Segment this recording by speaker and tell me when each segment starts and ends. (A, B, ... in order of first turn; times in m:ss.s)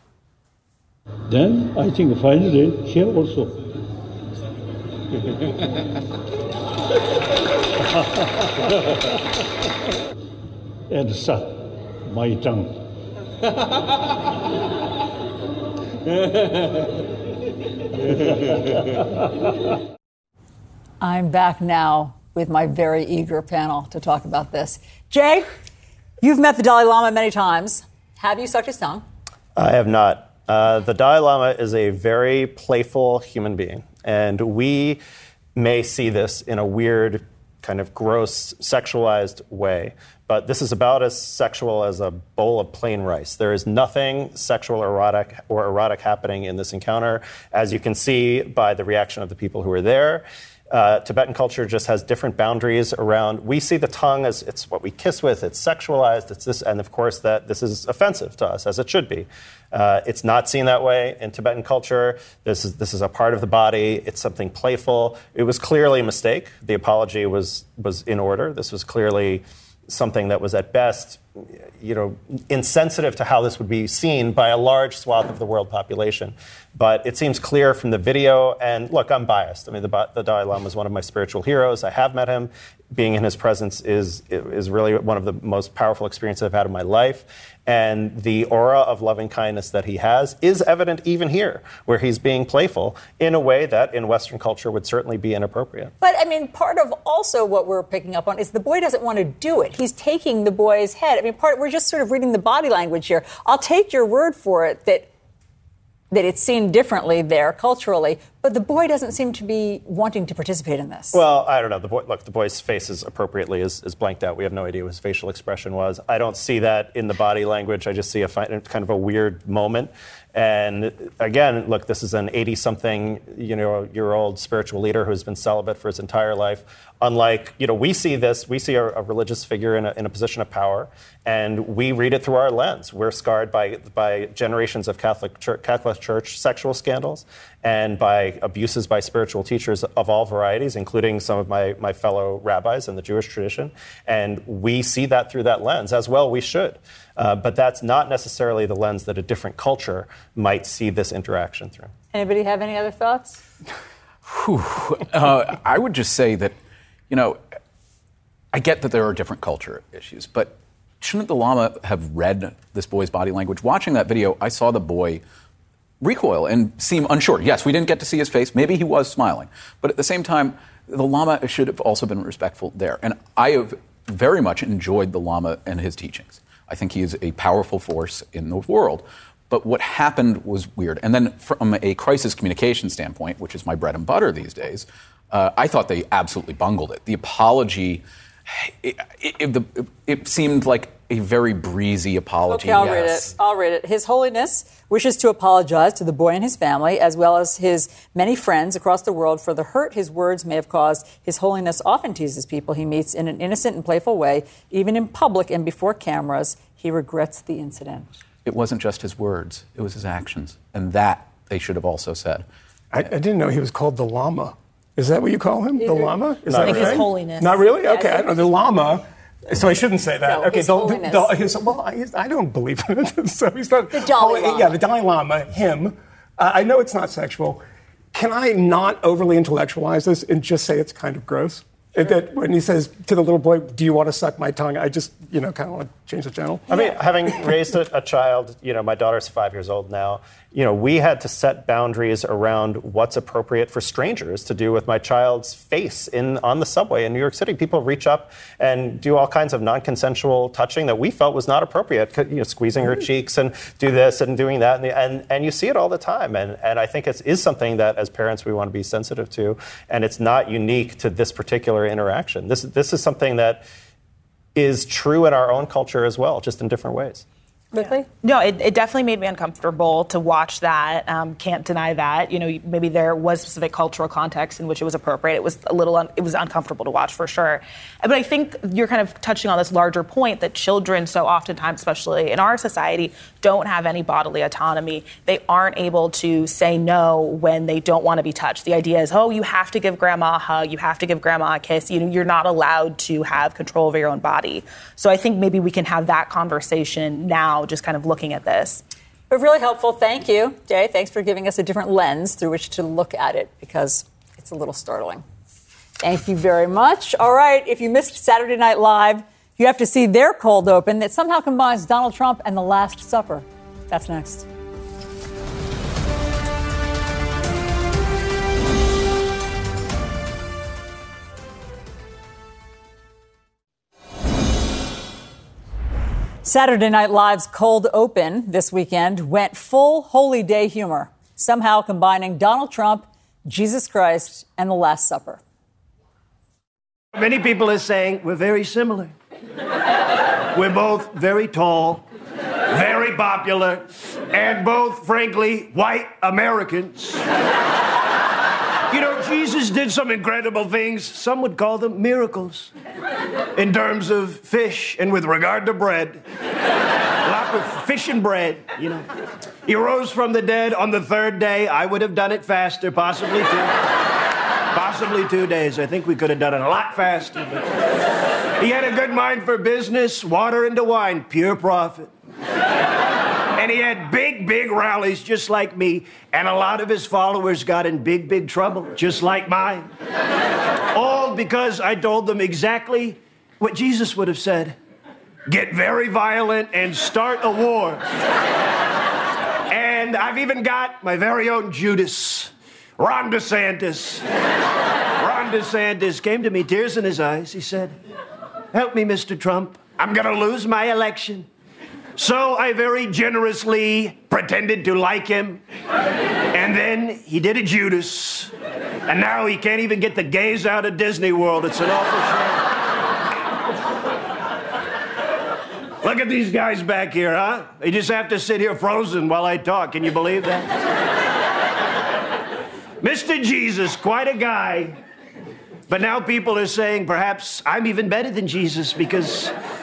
0:01.3-0:03.7 A
0:10.9-0:12.8 A
0:21.0-0:25.5 B
0:26.2-0:29.0 B
0:29.6-0:35.0 C
0:35.6-1:11.2 C
1:11.8-1:35.9 C
1:36.0-1:45.1 B
1:46.1-1:51.2 B
1:51.1-2:31.9 C
2:32.1-2:33.4 B
2:34.3-2:36.6 D
2:37.1-2:37.4 D
2:38.5-2:45.2 D
2:46.0-3:13.3 D
3:12.5-3:28.1 B
3:28.4-3:32.4 D
3:32.9-3:56.9 E
3:35.8-3:37.1 B
3:36.5-3:37.5 F
3:37.8-3:38.4 B
3:40.2-3:41.3 B
3:43.9-3:44.8 B
3:56.7-4:23.6 C
4:24.6-4:27.2 C
4:27.7-4:28.0 B
4:28.2-4:58.8 F
4:59.3-5:05.2 B
5:06.0-5:14.5 B
5:26.4-5:35.4 B
5:37.2-5:39.1 G
5:40.5-5:42.0 G
5:42.7-5:47.2 G
5:48.9-5:52.7 G
5:53.6-5:56.2 G
5:57.2-5:59.0 G
5:59.7-6:03.8 G
6:04.7-6:07.6 G
6:08.6-6:12.1 G
6:13.6-6:19.9 G
6:20.9-6:24.8 G
6:25.5-6:28.0 G
6:29.7-6:34.2 G
6:35.2-6:38.0 G
6:38.7-6:41.5 G
6:42.2-6:45.6 G
6:46.5-6:48.5 G
6:49.1-6:52.6 G
6:56.0-7:00.7 G
7:03.0-7:05.0 G
7:05.9-7:09.5 G